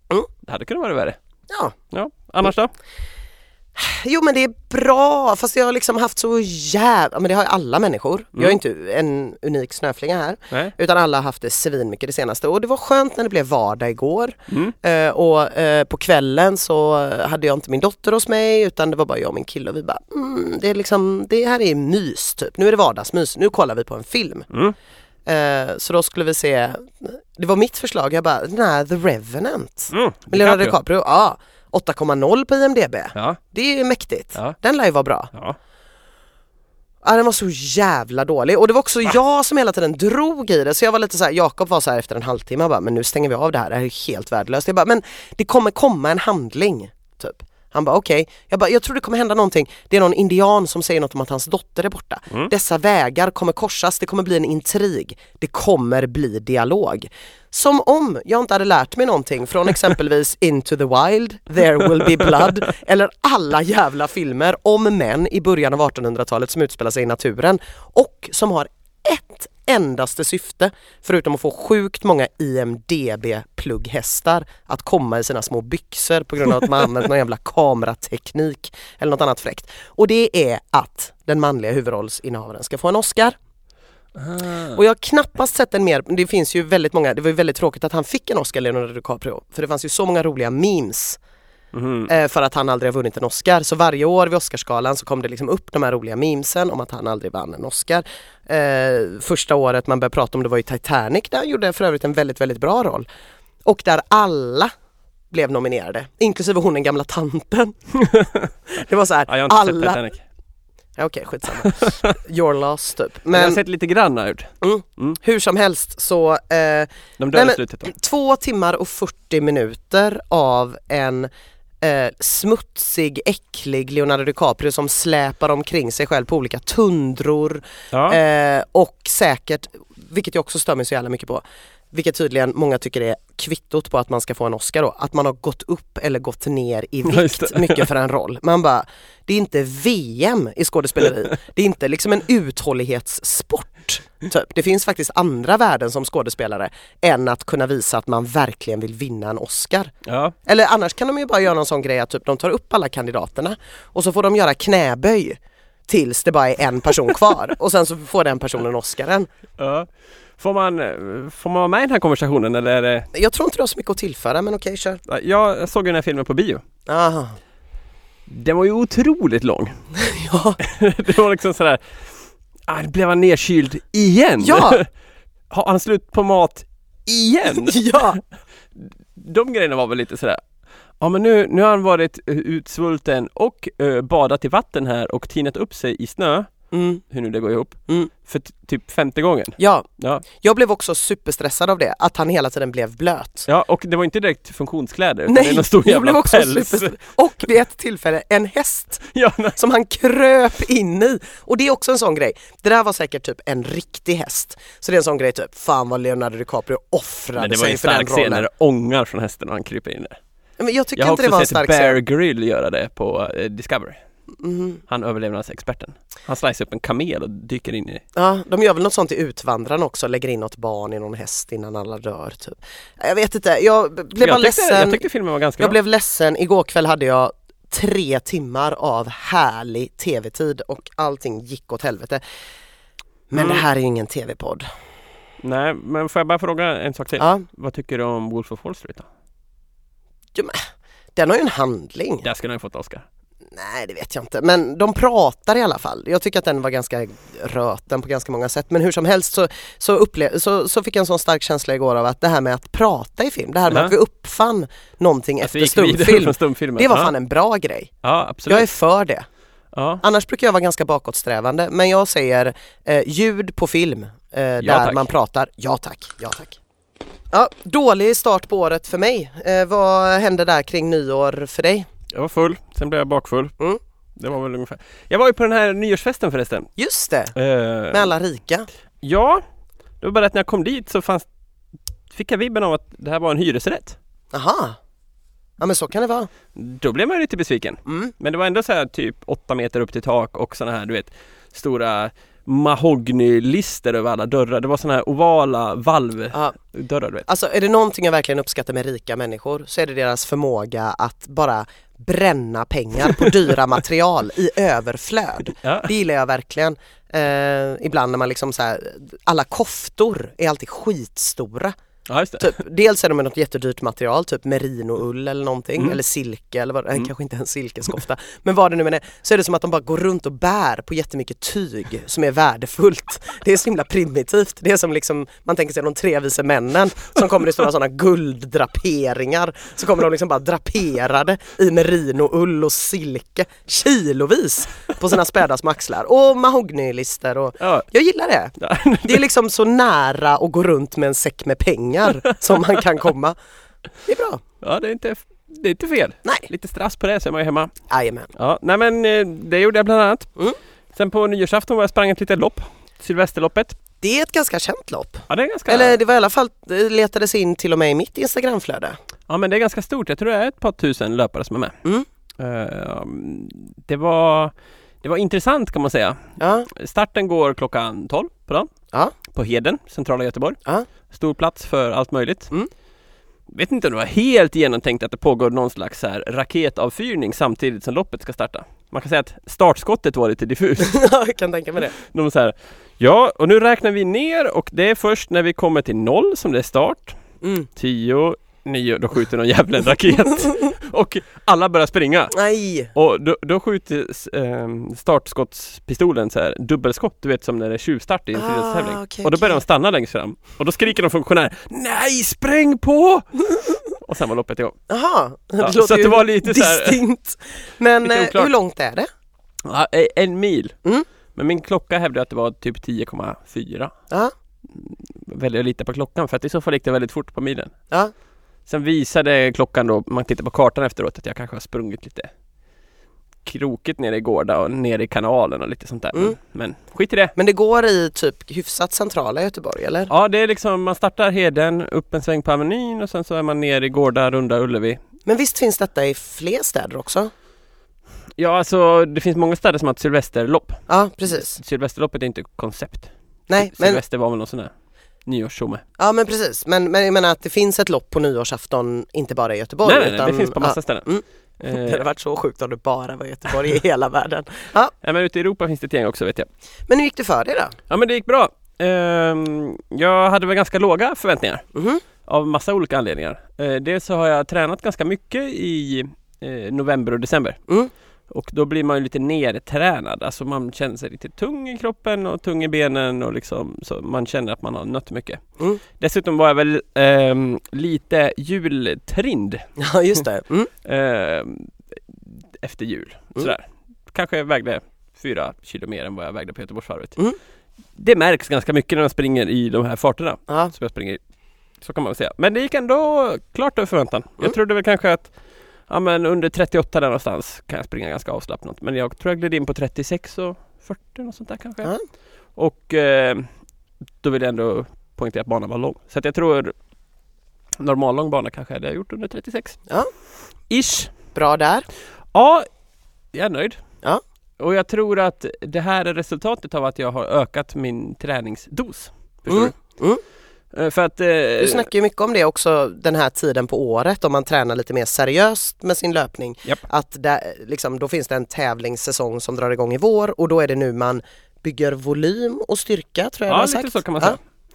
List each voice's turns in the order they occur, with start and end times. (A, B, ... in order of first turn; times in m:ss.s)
0:00.4-0:01.2 A
0:01.5-0:01.8 B
0:01.9-0:02.7 A
0:03.8-0:24.5 B
0:14.5-0:14.8 A
0:24.5-0:24.8 A
0:25.3-0:35.3 B
0:29.9-0:30.8 A
0:33.1-0:33.4 A
0:37.0-1:23.4 B
1:24.2-1:24.8 A
1:24.7-1:31.2 B
1:31.7-1:32.1 A
1:32.1-1:43.1 B
1:43.6-1:44.7 B
1:45.3-1:47.7 B
1:47.9-1:48.6 A
1:48.7-1:50.1 B
1:49.3-1:50.2 A
1:51.0-1:53.6 B
1:51.6-1:52.1 A
1:53.3-1:55.2 A
1:54.6-2:01.3 B
1:57.2-1:57.9 A
2:01.8-2:29.9 B
2:07.9-2:08.2 A
2:17.1-2:17.9 A
2:30.1-2:30.4 A
2:30.4-2:39.3 B
2:39.6-2:43.1 A
2:43.1-2:45.0 B
2:45.1-2:46.6 A
2:46.9-2:47.4 B
2:48.3-2:49.8 A
2:50.0-2:50.6 B
2:50.6-2:52.0 A
2:52.7-2:54.9 A
2:54.4-2:54.8 B
2:55.5-2:58.2 A
2:57.6-2:58.2 B
2:58.8-3:00.4 A
3:01.0-3:06.5 A
3:06.7-3:07.0 B
3:07.1-3:10.2 A
3:09.6-3:13.5 B
3:13.5-3:17.0 A
3:15.3-3:28.5 B
3:19.1-3:19.6 A
3:27.4-3:30.2 A
3:30.6-3:32.0 B
3:31.0-3:34.0 A
3:34.4-3:34.8 B
3:34.9-3:38.0 A
3:38.2-3:45.0 B
3:44.2-3:45.8 A
3:45.6-3:52.2 B
3:53.3-3:54.7 B
3:53.4-3:53.6 A
3:55.4-3:59.1 A
3:57.2-3:57.4 B
4:00.4-4:00.6 B
4:01.2-4:02.2 B
4:02.2-4:03.1 A
4:03.5-4:17.9 B
4:13.7-4:13.9 A
4:15.4-4:17.1 A
4:18.0-4:18.7 A
4:18.5-4:19.3 B
4:19.7-4:20.0 A
4:20.0-4:26.6 B
4:24.6-4:25.1 A
4:27.3-4:31.9 B
4:32.1-4:33.6 A
4:34.2-4:36.7 A
4:36.8-4:37.3 B
4:37.4-4:38.1 A
4:37.9-4:38.7 B
4:39.0-4:39.4 A
4:40.0-4:41.3 A
4:42.1-4:44.0 A
4:44.3-4:44.8 B
4:45.6-4:46.3 B
4:46.5-4:57.3 A
4:47.9-4:48.1 B
4:57.3-5:11.7 B
5:05.6-5:05.9 A
5:12.1-5:12.6 A
5:12.4-5:43.4 B
5:37.6-5:37.9 A
5:38.6-5:39.2 A
5:44.0-5:44.4 B
5:44.6-5:47.7 A
5:47.9-5:48.3 B
5:48.3-5:50.4 A
5:50.9-5:53.8 A
5:54.0-5:59.0 B
5:55.3-5:56.0 A
5:59.3-6:01.8 A
6:02.4-6:08.7 A
6:06.4-6:06.7 B
6:09.3-6:10.6 A
6:11.1-6:12.5 A
6:13.5-6:21.0 A
6:20.8-6:22.0 B
6:22.0-6:27.2 A
6:27.4-6:27.7 B
6:27.8-6:32.4 A
6:32.3-6:32.9 B
6:32.9-6:44.8 A
6:38.4-6:39.6 B
6:44.9-6:49.1 B
6:45.6-6:47.0 A
6:48.0-6:48.5 A
6:49.6-6:50.8 A
6:51.3-6:53.9 A
6:54.7-6:57.7 A
6:58.7-7:02.3 A
7:03.4-7:07.3 A
7:07.4-7:10.1 B
7:10.1-7:15.0 A
7:15.3-7:17.3 B
7:18.4-7:24.7 A
7:20.9-7:21.6 B
7:23.5-7:24.0 B
7:25.3-7:25.8 A
7:26.0-7:34.9 B
7:29.8-7:31.1 A
7:31.6-7:32.0 A
7:35.0-7:36.5 A
7:36.9-7:37.8 B
7:37.9-7:41.6 A
7:41.8-7:42.0 B
7:42.2-7:47.6 A
7:48.3-7:55.4 A
7:56.0-7:59.7 A
7:59.8-8:00.7 B
8:00.8-8:07.2 A
8:08.0-8:11.2 A
8:11.8-8:15.3 A
8:15.9-8:21.9 A
8:22.6-8:23.5 A
8:24.2-8:26.7 A
8:27.8-8:29.8 A
8:30.7-8:31.1 A
8:31.3-8:31.9 B
8:32.3-8:32.7 A
8:33.3-8:33.8 A
8:34.6-8:39.8 A
8:39.5-8:40.2 B
8:40.7-8:41.9 A
8:41.6-8:54.4 B
8:53.5-8:54.4 A